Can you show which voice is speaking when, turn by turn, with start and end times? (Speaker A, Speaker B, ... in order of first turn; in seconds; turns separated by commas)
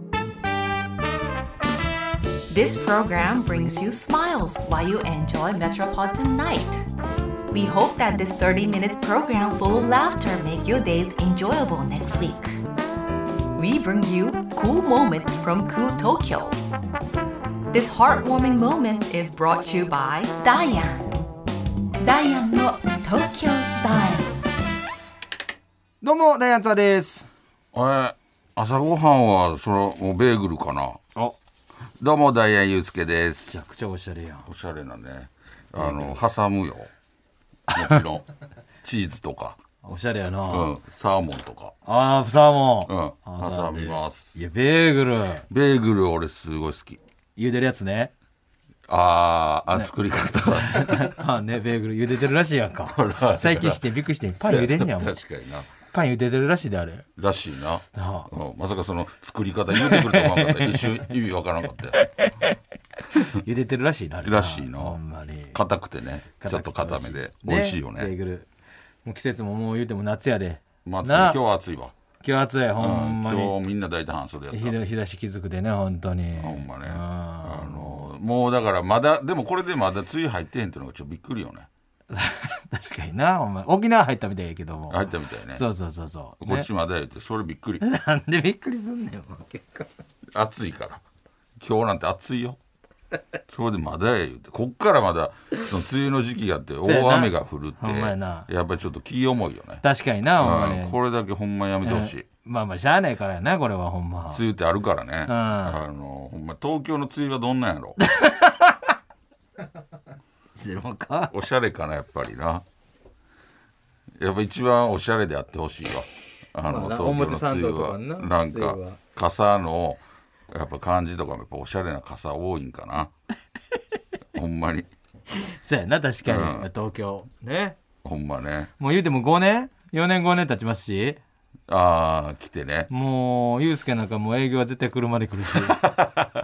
Speaker A: 2.5-6.9, Speaker A: 7.5-12.6, Speaker A: 13.6-16.6, Speaker A: 17.7-21.1, Speaker A: 22.0-24.4, Speaker B: 26.0-27.3, Speaker C: 27.7-31.0, Speaker C: 32.0-33.6, Speaker B: 33.5-34.5, Speaker C: 34.5-36.9, Speaker B: 35.8-36.2, Speaker C: 37.7-38.3, Speaker C: 38.8-39.6, Speaker B: 39.8-40.8, Speaker C: 40.5-41.8, Speaker B: 41.9-45.5, Speaker C: 42.9-44.4, Speaker C: 45.5-47.0, Speaker B: 47.4-48.1, Speaker C: 48.9-51.1, Speaker B: 49.8-55.2, Speaker C: 52.9-53.8, Speaker C: 54.4-55.7, Speaker B: 55.9-57.1, Speaker C: 57.2-62.0, Speaker B: 58.0-58.3, Speaker B: 59.7-61.1, Speaker B: 62.0-62.5, Speaker B: 63.1-65.6, Speaker C: 64.2-65.0, Speaker C: 65.5-68.1, Speaker B: 66.4-68.5, Speaker B: 69.0-71.4, Speaker C: 70.8-72.0, Speaker B: 72.2-73.6, Speaker C: 72.8-74.8, Speaker B: 74.5-78.1, Speaker C: 76.4-81.7, Speaker B: 82.1-86.7, Speaker C: 84.9-85.7, Speaker C: 86.4-87.8, Speaker B: 87.8-89.9, Speaker C: 90.3-91.0, Speaker C: 91.6-92.6, Speaker C: 93.5-99.8, Speaker B: 96.8-98.5, Speaker B: 99.8-101.0, Speaker C: 100.4-102.3, Speaker B: 101.8-104.4, Speaker C: 104.3-108.0, Speaker B: 105.3-105.8, Speaker B: 108.0-108.9, Speaker B: 110.6-111.3, Speaker C: 111.3-112.6, Speaker C: 114.2-123.1, Speaker B: 116.7-119.0, Speaker C: 124.3-124.9, Speaker B: 125.3-127.8, Speaker C: 126.2-126.7, Speaker C: 128.0-128.7, Speaker B: 128.8-131.2, Speaker C: 131.7-132.9, Speaker B: 132.9-135.9, Speaker C: 135.8-136.1